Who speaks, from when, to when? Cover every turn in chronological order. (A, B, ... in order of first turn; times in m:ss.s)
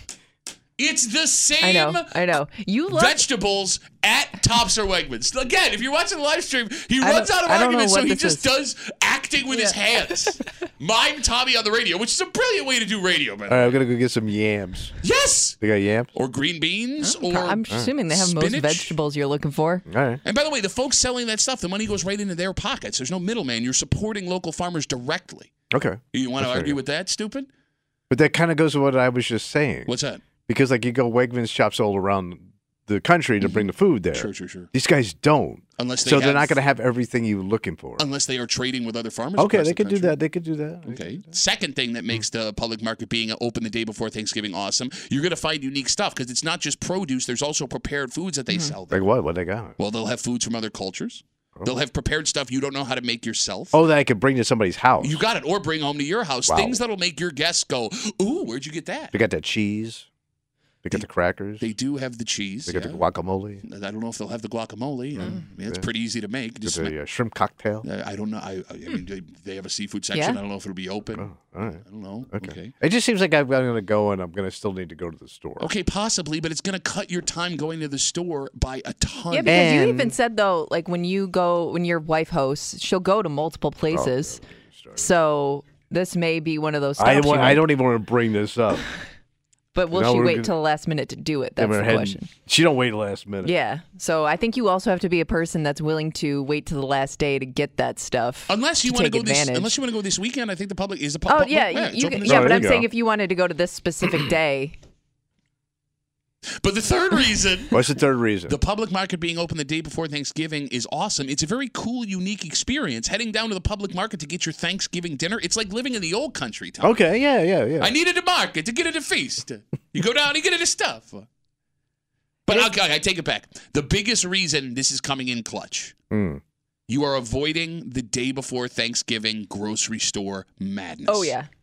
0:00.8-0:02.3 A
0:01.6-0:03.2 B
0:02.9-0:13.8 A
0:07.0-0:08.5 B
0:09.5-0:09.8 B
0:13.5-0:14.9 C
0:15.0-0:15.6 A
0:15.6-0:16.1 C
0:16.1-0:19.0 A
0:17.0-0:19.8 B
0:19.9-0:20.2 C
0:20.2-0:25.5 A
0:25.7-0:26.8 C
0:26.1-0:27.5 A
0:28.1-0:29.9 C
0:29.9-0:30.2 A
0:30.5-0:38.0 C
0:33.4-0:34.7 A
0:35.8-0:36.6 A
0:38.0-0:40.2 A
0:39.4-0:41.2 C
0:40.9-0:49.1 A
0:48.5-0:48.7 B
0:48.9-0:49.7 C
0:49.8-0:53.8 A
0:53.7-0:55.2 C
0:55.0-0:59.1 A
0:56.5-0:56.8 C
0:59.1-1:00.1 C
1:00.8-1:01.7 C
1:01.6-1:03.0 A
1:02.7-1:03.6 C
1:03.6-1:06.9 A
1:06.6-1:07.8 C
1:07.8-1:11.3 A
1:10.1-1:10.4 B
1:11.1-1:15.7 C
1:11.8-1:12.7 A
1:15.6-1:19.8 A
1:19.3-1:24.4 B
1:19.5-1:20.1 C
1:23.9-1:25.1 C
1:25.0-1:27.7 B
1:27.0-1:28.8 C
1:29.7-1:32.3 B
1:29.9-1:30.5 C
1:31.6-1:33.5 C
1:33.4-1:39.8 B
1:38.5-1:42.8 A
1:41.2-1:44.8 B
1:42.2-1:42.9 C
1:46.6-1:47.8 A
1:47.7-1:48.6 C
1:48.5-1:57.0 A
1:56.8-1:57.9 C
1:57.8-2:01.2 A
2:02.4-2:05.9 A
2:06.1-2:06.4 C
2:06.9-2:11.3 A
2:11.1-2:11.5 B